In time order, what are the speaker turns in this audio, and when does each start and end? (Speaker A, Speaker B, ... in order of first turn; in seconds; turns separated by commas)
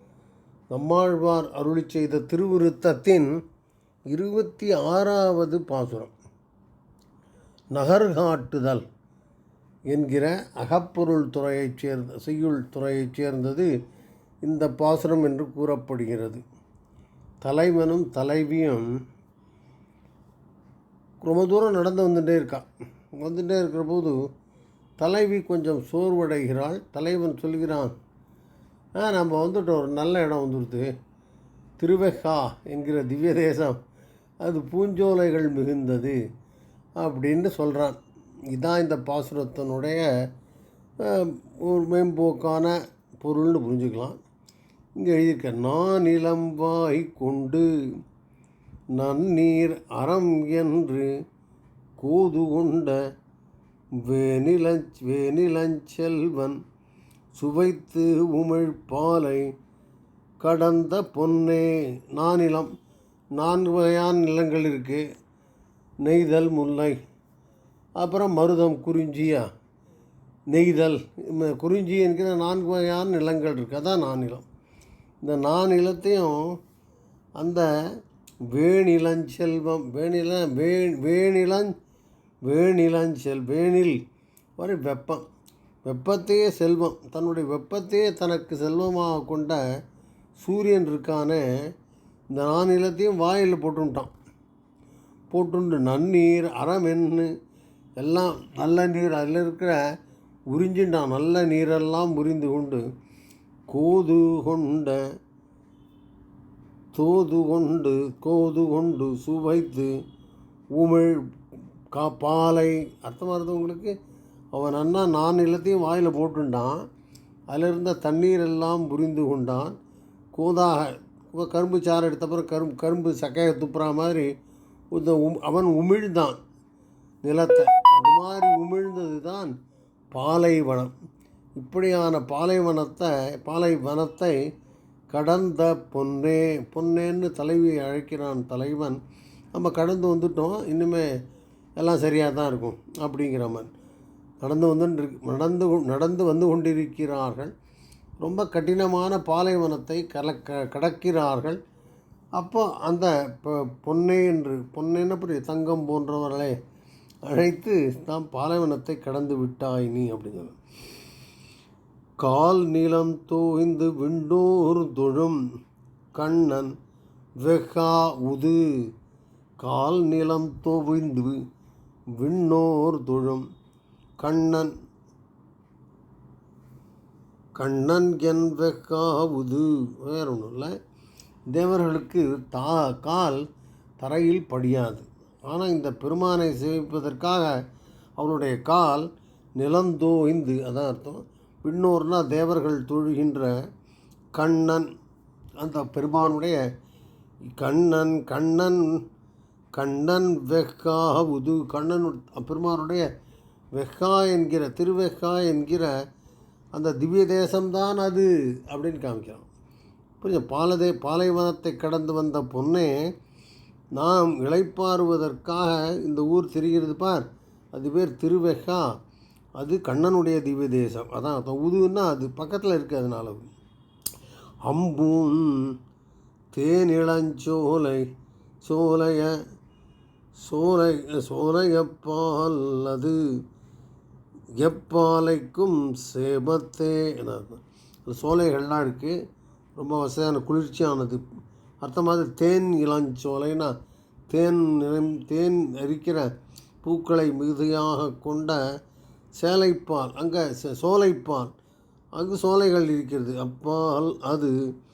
Speaker A: 0.7-3.4, Speaker A: 4.1-6.1, Speaker A: 7.7-8.8, Speaker A: 9.9-13.7, Speaker A: 14.4-16.4, Speaker A: 17.4-18.9, Speaker A: 21.2-24.2, Speaker A: 25.0-27.9, Speaker A: 29.0-30.9, Speaker A: 31.8-33.8, Speaker A: 34.4-36.2, Speaker A: 37.0-38.0, Speaker A: 38.5-40.1, Speaker A: 41.0-44.2, Speaker A: 45.0-47.7, Speaker A: 48.9-51.1, Speaker A: 52.0-53.0, Speaker A: 54.0-56.6, Speaker A: 57.3-59.5, Speaker A: 60.4-62.7, Speaker A: 63.4-65.0, Speaker A: 66.0-67.0, Speaker A: 68.0-69.5, Speaker A: 70.5-74.4, Speaker A: 75.2-76.6, Speaker A: 77.4-77.7, Speaker A: 78.5-81.7, Speaker A: 82.4-84.0, Speaker A: 84.6-85.2, Speaker A: 85.8-89.6, Speaker A: 90.4-91.4, Speaker A: 92.3-94.1, Speaker A: 95.3-97.3, Speaker A: 98.0-99.8, Speaker A: 100.5-102.8, Speaker A: 103.7-105.0, Speaker A: 106.9-109.9, Speaker A: 110.7-111.2, Speaker A: 111.9-113.9, Speaker A: 114.5-116.8, Speaker A: 117.5-119.8, Speaker A: 120.3-124.3, Speaker A: 124.9-126.4, Speaker A: 127.2-129.5, Speaker A: 130.1-130.9, Speaker A: 131.6-134.4, Speaker A: 135.1-139.0, Speaker A: 139.5-141.1, Speaker A: 141.8-143.7, Speaker A: 144.4-147.5, Speaker A: 148.2-151.6, Speaker A: 152.3-156.6, Speaker A: 157.2-160.6, Speaker A: 162.2-165.4, Speaker A: 166.2-166.7, Speaker A: 167.4-168.6, Speaker A: 169.6-171.4, Speaker A: 172.2-173.4, Speaker A: 174.2-174.7, Speaker A: 177.6-180.7, Speaker A: 181.5-183.4, Speaker A: 184.0-187.5, Speaker A: 188.2-193.5, Speaker A: 194.3-194.9, Speaker A: 195.6-196.6, Speaker A: 197.6-198.9, Speaker A: 199.7-203.1, Speaker A: 203.7-205.9, Speaker A: 206.7-209.5, Speaker A: 210.2-212.9, Speaker A: 213.9-218.9, Speaker A: 219.6-223.5, Speaker A: 224.7-225.7, Speaker A: 226.5-228.1, Speaker A: 228.6-229.4, Speaker A: 230.4-233.2, Speaker A: 234.6-239.2, Speaker A: 239.8-241.2, Speaker A: 241.8-243.7, Speaker A: 244.3-246.3, Speaker A: 246.8-248.6, Speaker A: 249.4-251.5, Speaker A: 252.2-254.5